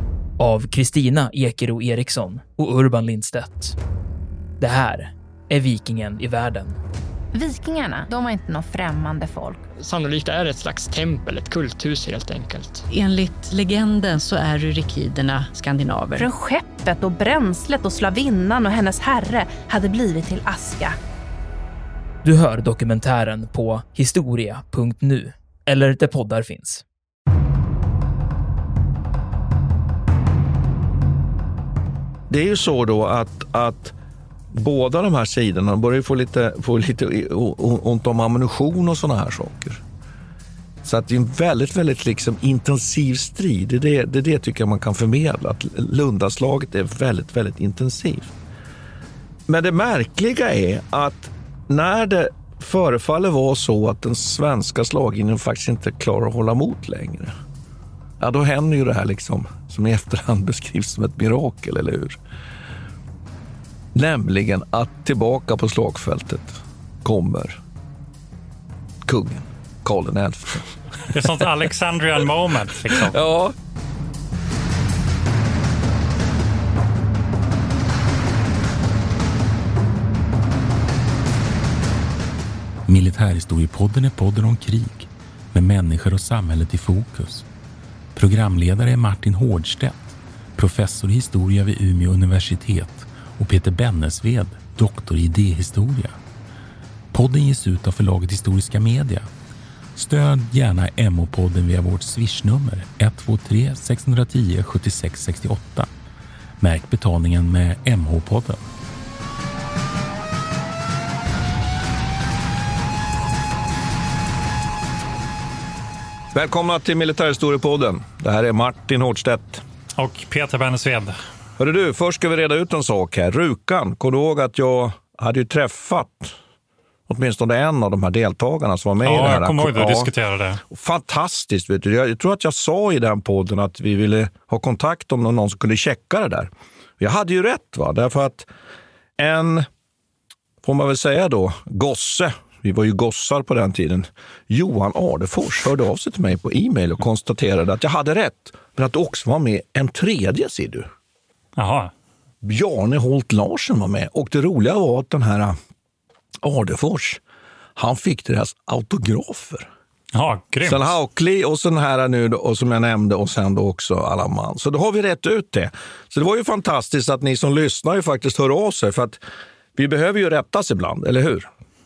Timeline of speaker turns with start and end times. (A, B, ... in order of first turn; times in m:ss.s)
0:00.4-0:03.8 A
0:04.6-0:06.8 A
0:08.6-0:09.6 B
0:09.8-0:12.8 C
0:12.9-0:16.3 D
0:16.2-0:21.0 B
0:22.2-0:26.8 A
0:32.3-0:34.0 E
0:34.5-0:39.8 E
0:40.8-0:48.3 E
0:49.5-0:57.3 E
0:58.2-1:02.2 E
1:03.9-1:07.6 E
1:09.0-1:10.6 E
1:11.1-1:13.2 F
1:12.9-1:13.5 E
1:22.9-1:27.4 G
1:28.1-1:36.2 G
1:37.1-1:39.3 G
1:40.0-1:45.9 G
1:46.6-1:48.6 G
1:56.3-1:59.6 E
2:00.0-2:01.1 F
2:01.6-2:06.3 E
2:07.1-2:10.1 E
2:09.0-2:10.6 F
2:10.7-2:18.5 E
2:19.2-2:19.7 E
2:20.6-2:30.9 E
2:31.6-2:31.9 F
2:32.4-2:35.6 E
2:36.4-2:37.2 E
2:37.8-2:39.7 E
2:40.1-2:40.9 F
2:40.6-2:49.2 E
2:49.8-2:51.5 E